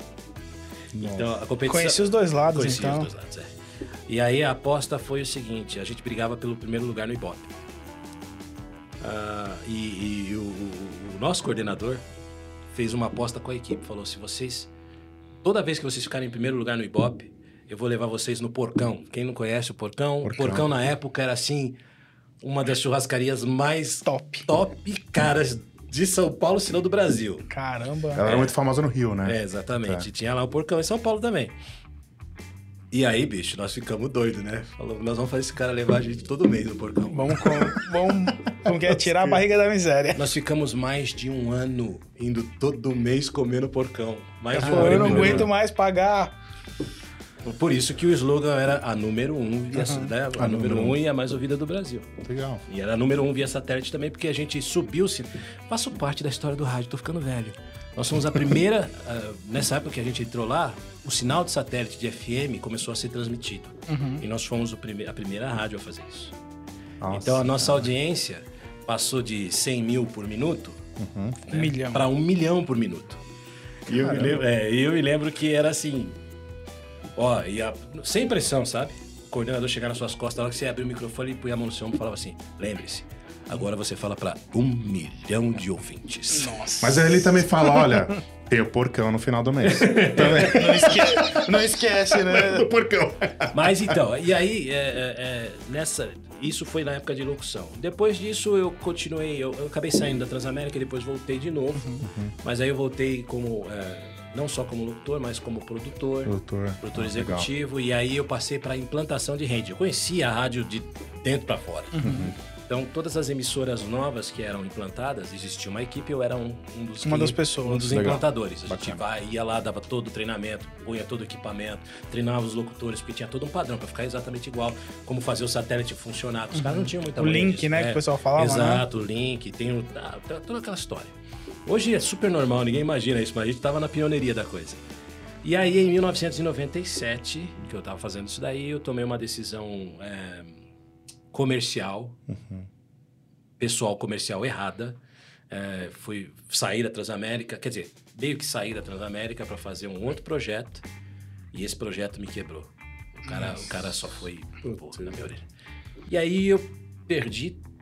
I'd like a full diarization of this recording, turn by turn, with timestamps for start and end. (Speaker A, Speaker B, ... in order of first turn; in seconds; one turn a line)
Speaker A: 0.9-1.3
Speaker B: 1.0-3.5
Speaker C: 1.7-3.1
Speaker B: 4.1-7.5
Speaker B: 9.0-12.0
Speaker B: 12.7-14.7
Speaker B: 15.4-21.8
Speaker A: 20.2-20.6
Speaker B: 22.4-27.5
Speaker C: 24.1-24.5
Speaker C: 27.5-28.2
Speaker A: 28.1-30.1
Speaker B: 28.2-28.5
Speaker B: 29.2-31.5
Speaker B: 32.9-37.5
Speaker C: 37.1-40.3
Speaker A: 38.7-39.4
Speaker B: 40.1-45.5
Speaker C: 44.5-46.3
Speaker A: 44.6-45.5
Speaker B: 47.4-52.1
Speaker C: 49.8-50.1
Speaker A: 50.4-51.0
Speaker A: 52.2-52.6
Speaker B: 52.7-66.3
Speaker C: 63.9-64.2
Speaker A: 67.0-67.9
Speaker B: 67.1-70.8
Speaker A: 71.0-71.4
Speaker B: 71.5-73.2
Speaker C: 71.5-72.0
Speaker B: 73.9-76.2
Speaker A: 73.9-74.4
Speaker B: 77.2-86.5
Speaker C: 86.3-88.0
Speaker A: 86.8-93.9
Speaker B: 89.6-91.0
Speaker C: 90.2-92.7
Speaker B: 93.5-112.0
Speaker C: 101.8-102.0
Speaker A: 102.0-102.3
Speaker A: 106.2-107.5
Speaker C: 111.9-112.3
Speaker A: 112.0-112.3
Speaker B: 112.7-131.1
Speaker C: 117.0-118.0
Speaker A: 117.8-119.0
Speaker C: 126.5-128.8
Speaker B: 131.7-134.8
Speaker B: 135.4-140.6
Speaker B: 141.3-142.2
Speaker A: 142.3-142.7
Speaker B: 143.6-145.0
Speaker B: 145.5-150.8
Speaker B: 151.5-155.4
Speaker B: 156.1-157.6